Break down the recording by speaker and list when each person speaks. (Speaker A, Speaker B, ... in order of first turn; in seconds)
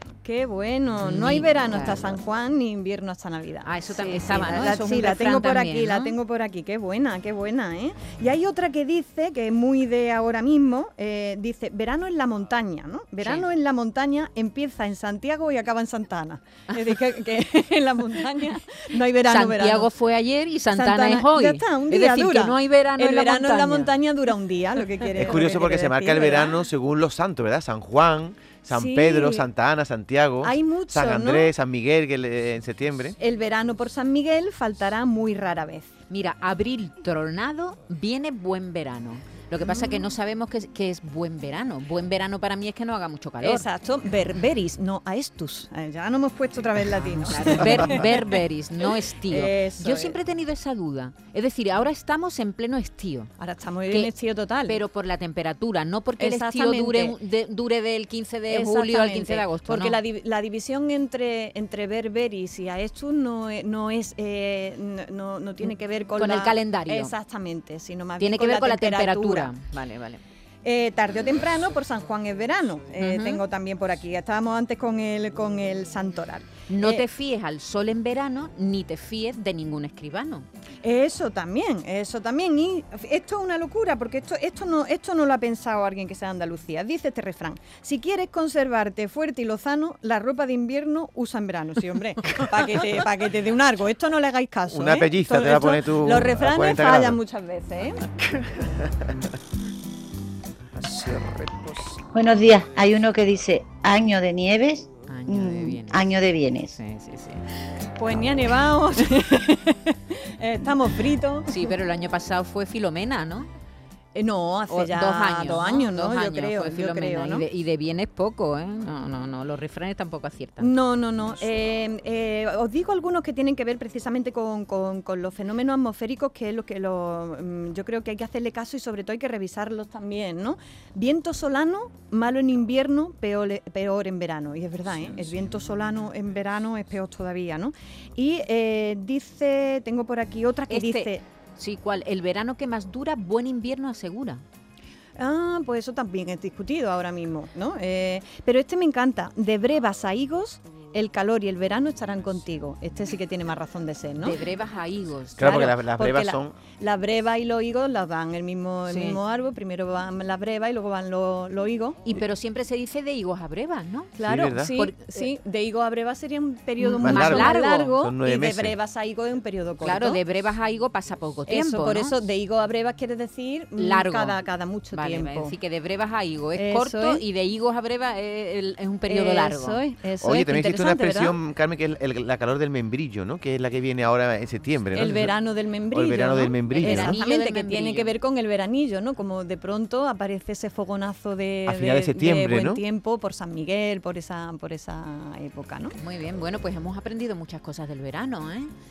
Speaker A: 0.2-19.9, 20.7-26.6, 28.7-29.5, 30.4-31.5, 33.2-35.9, 39.6-40.0, 43.4-48.4, 49.2-50.2, 53.4-54.8, 56.2-57.2, 58.5-69.5, 70.6-77.1, 80.8-98.1, 108.0-111.7, 114.2-117.5, 120.6-141.2, 145.2-154.4, 155.4-162.0, 164.2-170.2, 171.5-175.6, 176.6-177.2, 179.1-181.4, 184.9-195.9
Speaker B: 1.0-2.1, 3.6-6.2, 13.2-13.4, 19.3-23.9, 36.1-43.7, 47.2-53.3, 54.7-60.0, 66.2-67.1, 68.2-70.2, 73.0-73.4, 76.7-80.5, 105.1-106.1, 106.7-107.4, 111.5-113.5, 114.7-120.7, 140.7-144.4, 154.2-155.7, 158.9-159.2, 162.1-164.1, 164.7-165.3, 166.8-167.9, 169.8-172.2, 173.8-174.4, 174.9-179.8, 186.7-188.1, 196.0-198.7
Speaker C: 25.1-33.2, 94.7-97.2, 155.4-156.6, 164.2-164.7, 167.0-168.8, 180.2-185.3, 185.9-187.2, 191.7-192.8
Speaker D: 102.1-104.7, 105.4-106.5